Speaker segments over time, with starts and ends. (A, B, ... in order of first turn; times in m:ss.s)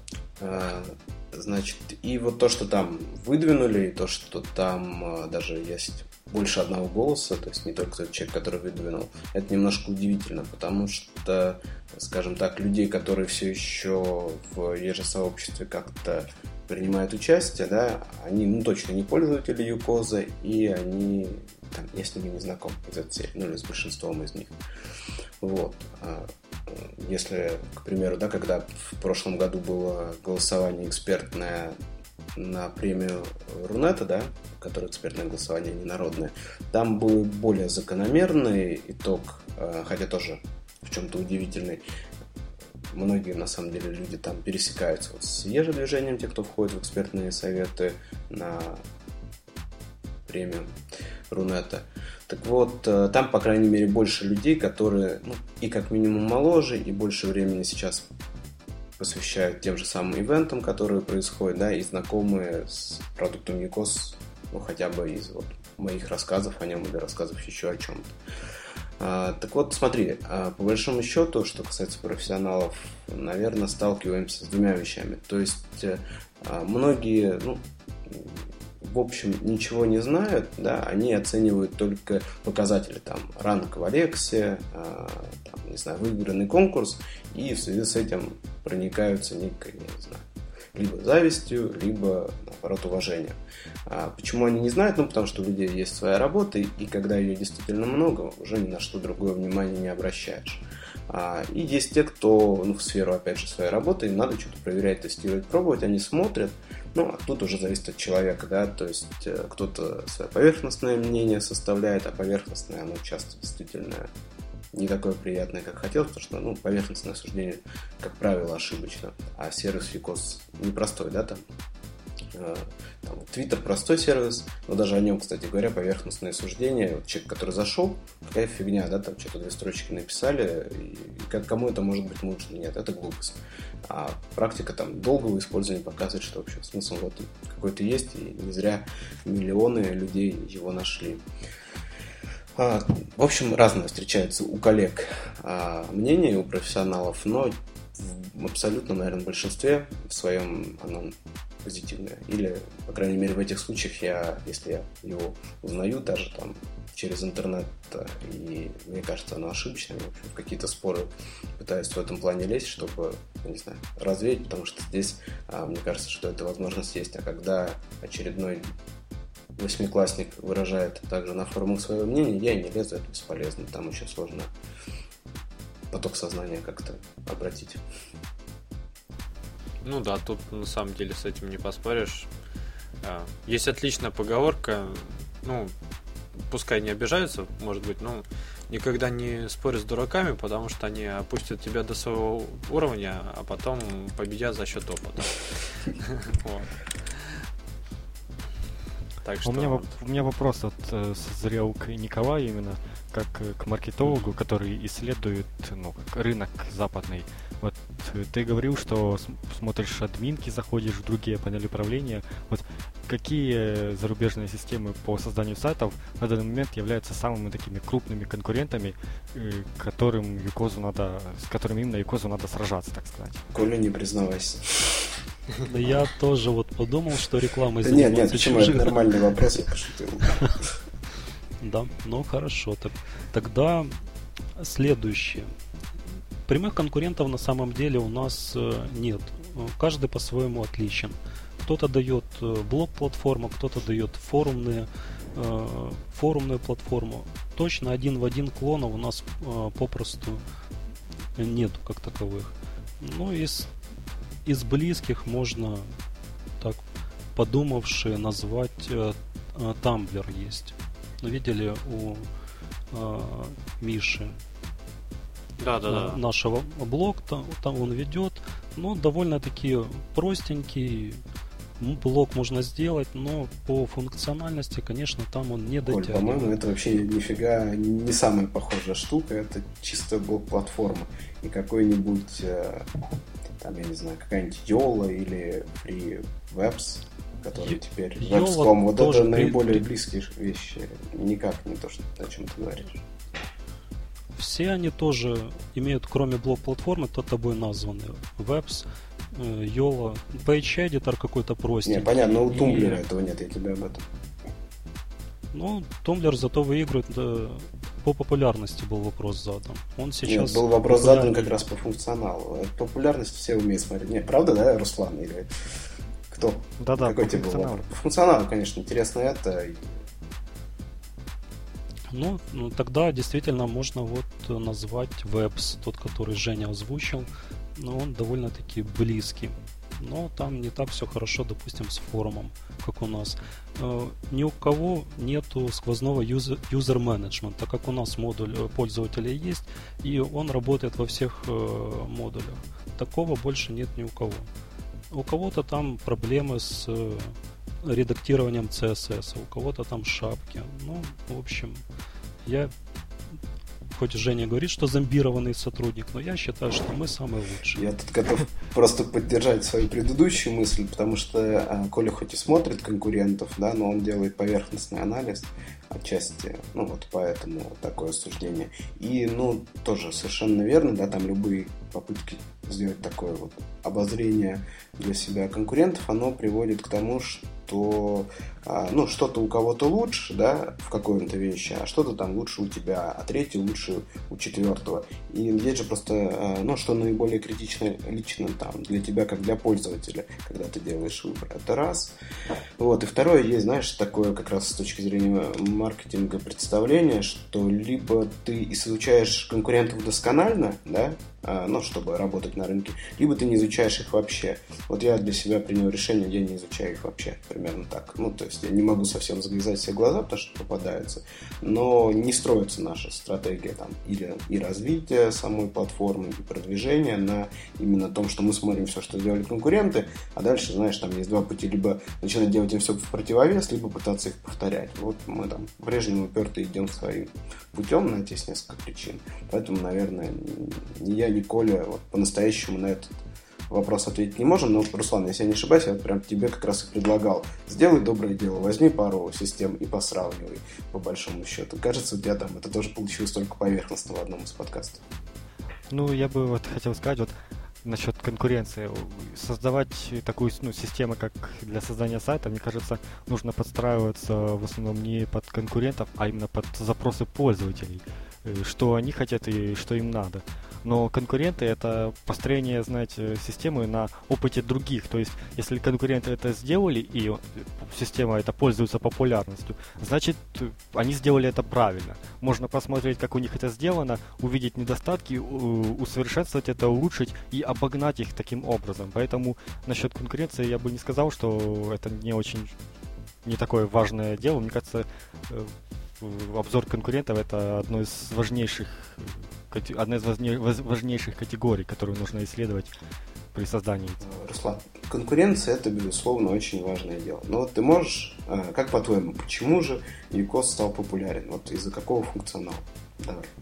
0:00.4-0:24.6 A
0:25.4-0:31.8 A
0:32.4-0:41.8 A
0:42.9-0:48.8 A
0:50.3-0:50.8 A
0:51.3-0:58.1 A
0:59.0-1:08.2 A
1:09.0-1:33.4 A
1:33.9-1:54.1 A
1:54.7-2:01.4 A
2:02.3-2:21.2 A
2:22.6-2:48.7 A
2:49.6-2:54.5 A
2:55.9-2:57.8 A
2:59.8-3:02.3 B
3:03.0-3:05.7 B
3:06.5-3:17.4 B
3:19.2-3:19.9 B
3:19.4-3:43.4 C
3:24.0-3:24.3 B
3:43.5-3:45.1 A
3:45.7-3:49.0 D
3:47.8-3:50.6 A
3:51.6-3:54.0 D
3:54.6-3:55.5 D
3:56.5-4:10.4 D
4:11.4-4:13.7 D
4:14.4-4:15.9 D
4:17.4-4:22.3 D
4:22.9-4:24.3 D
4:25.6-4:26.2 B
4:25.9-4:31.2 D
4:31.8-4:36.5 D
4:35.9-4:43.0 A
4:43.6-4:53.0 A
4:47.6-4:49.9 D
4:54.4-5:03.0 D
5:01.9-5:04.0 A
5:05.5-5:11.5 D
5:10.3-5:15.5 A
5:16.3-5:19.9 A
5:16.8-5:17.9 C
5:22.1-5:44.5 D
5:45.1-5:51.8 D
5:52.4-5:52.7 D
5:54.0-5:57.8 D
5:57.8-6:32.2 A
6:32.8-7:13.1 A
7:13.7-7:25.0 A
7:25.9-8:02.7 C
8:03.4-8:12.9 C
8:13.5-8:14.2 C
8:14.2-8:23.5 A